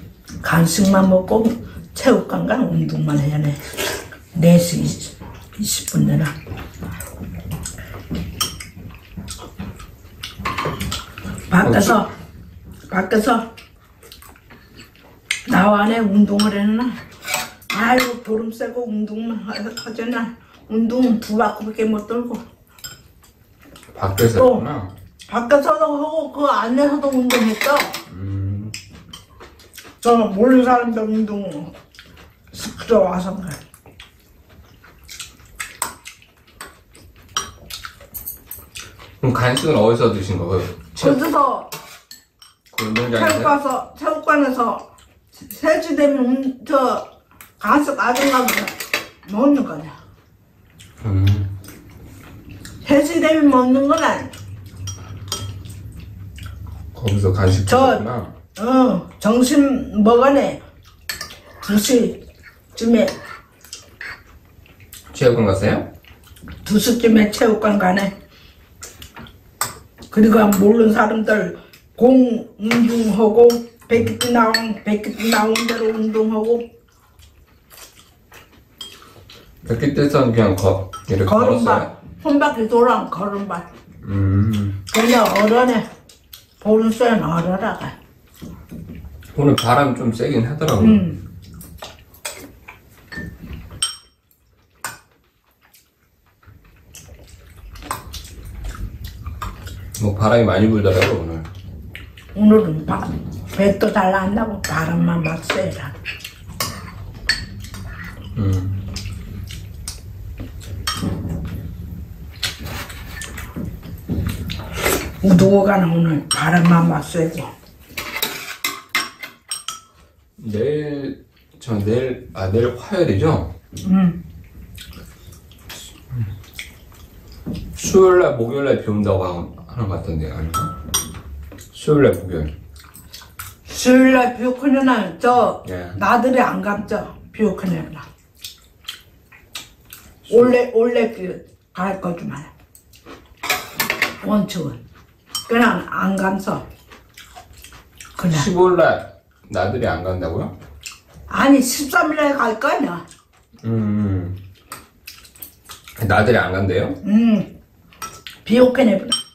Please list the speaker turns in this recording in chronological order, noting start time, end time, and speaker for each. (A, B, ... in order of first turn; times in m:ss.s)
0:00.4-0:03.6 A
0:04.3-0:06.3 A
0:11.5-0:12.1 A
0:11.6-0:12.0 B
0:12.9-0:13.4 A
0:15.5-0:17.0 A
0:17.7-0:22.4 A
0:23.9-0:24.9 B
0:24.3-0:24.6 A
0:25.3-0:27.9 A
0:28.1-0:28.8 B
0:30.0-0:31.7 A
0:32.5-0:33.6 A
0:39.2-0:41.2 B
0:41.0-0:41.7 A
0:42.7-0:43.5 B
0:43.1-0:47.1 A
0:47.6-0:48.8 A
0:49.2-0:50.0 A
0:51.0-0:51.5 B
0:52.8-0:54.3 A
0:56.9-0:58.3 B
0:57.7-0:58.0 A
0:58.6-1:00.6 A
1:01.6-1:02.2 A
1:02.7-1:03.1 A
1:05.1-1:05.9 B
1:06.6-1:08.1 A
1:10.1-1:16.6 A
1:19.6-1:21.9 B
1:21.2-1:23.7 A
1:24.0-1:24.8 B
1:24.9-1:25.8 A
1:26.6-1:27.9 A
1:29.3-1:31.0 B
1:30.8-1:31.2 A
1:40.0-1:41.5 B
1:42.3-1:46.0 A
1:48.3-1:48.8 B
1:55.2-1:57.5 A
2:00.4-2:03.5 B
2:03.8-2:04.2 A
2:07.8-2:10.7 B
2:11.7-2:12.5 B
2:13.7-2:18.0 A
2:15.6-2:16.0 B
2:20.3-2:22.5 A
2:24.2-2:24.8 A
2:25.5-2:26.6 A
2:28.2-2:28.5 A
2:28.3-2:30.5 B
2:31.3-2:33.0 A
2:33.6-2:34.4 B
2:36.0-2:37.0 B
2:37.0-2:37.5 A
2:38.4-2:39.2 A